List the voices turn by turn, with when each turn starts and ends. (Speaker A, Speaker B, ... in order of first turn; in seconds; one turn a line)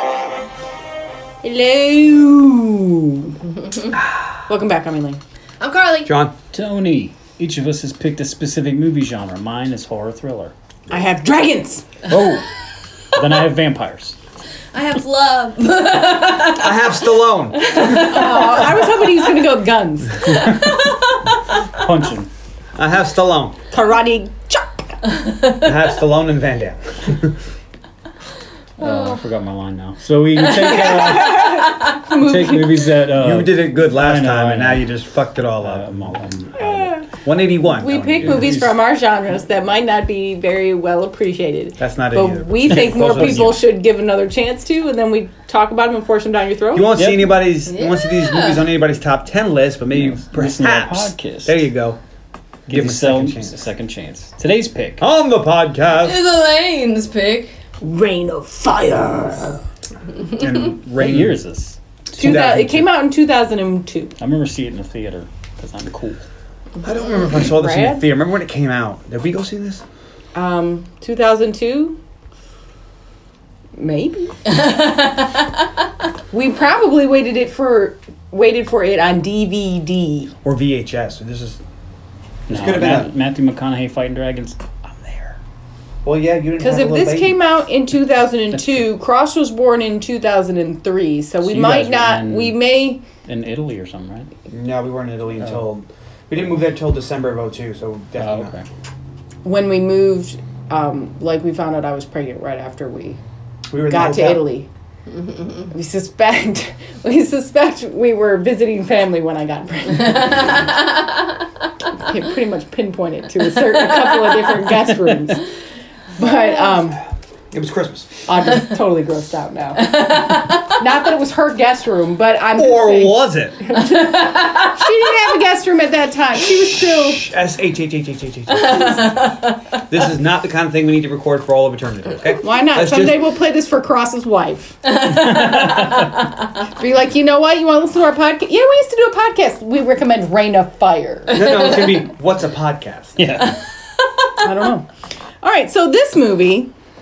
Speaker A: 1.4-3.4
Speaker A: 4.5-5.2
Speaker B: 5.6-6.1
Speaker C: 6.0-6.3
Speaker D: 6.5-10.5
Speaker A: 10.9-11.8
Speaker D: 12.1-12.5
Speaker D: 13.1-14.2
Speaker B: 14.7-19.3
Speaker C: 16.5-18.1
Speaker A: 17.8-20.5
Speaker B: 20.3-21.2
Speaker D: 21.7-22.3
Speaker C: 22.8-23.6
Speaker A: 23.7-25.0
Speaker C: 25.6-27.4
Speaker B: 28.8-29.2
Speaker D: 28.8-34.9
Speaker B: 30.4-31.5
Speaker A: 30.8-32.9
Speaker C: 33.1-36.2
Speaker D: 35.6-37.0
Speaker A: 36.5-37.1
Speaker C: 37.1-38.7
Speaker A: 37.6-46.9
Speaker D: 38.2-38.8
Speaker C: 41.8-43.6
Speaker D: 42.7-43.7
Speaker C: 46.7-52.0
Speaker D: 46.9-47.4
Speaker B: 47.7-48.7
Speaker D: 49.9-51.6
Speaker C: 52.7-53.6
Speaker D: 52.7-55.0
Speaker C: 55.0-56.2
Speaker B: 55.9-57.5
Speaker A: 57.8-59.6
Speaker C: 60.3-61.4
Speaker D: 61.0-62.6
Speaker C: 62.2-62.9
Speaker A: 62.2-64.2
Speaker D: 64.2-66.2
Speaker C: 66.8-69.8
Speaker A: 67.6-68.0
Speaker A: 70.3-72.0
Speaker A: 73.8-74.4
Speaker B: 74.6-75.5
Speaker A: 76.3-80.3
Speaker C: 80.4-81.6
Speaker C: 82.5-83.1
Speaker D: 82.5-85.4
Speaker C: 86.0-87.4
Speaker A: 86.6-93.0
Speaker D: 88.5-88.9
Speaker D: 91.5-92.6
Speaker D: 93.2-94.3
Speaker C: 94.5-98.5
Speaker D: 95.4-95.7
Speaker D: 98.2-98.7
Speaker A: 99.5-103.2
Speaker C: 103.7-104.4
Speaker A: 103.9-104.7
Speaker A: 105.7-110.8
Speaker A: 112.0-115.5
Speaker A: 116.2-117.0
Speaker C: 117.5-118.2
Speaker A: 118.3-127.3
Speaker B: 119.9-120.8
Speaker C: 122.6-123.6
Speaker B: 123.9-124.7
Speaker C: 126.3-129.1
Speaker B: 128.6-129.6
Speaker C: 129.9-133.2
Speaker A: 132.4-135.7
Speaker D: 135.0-136.1
Speaker A: 136.7-141.7
Speaker C: 141.3-143.2
Speaker D: 143.2-143.6
Speaker A: 144.4-144.9
Speaker A: 145.4-146.7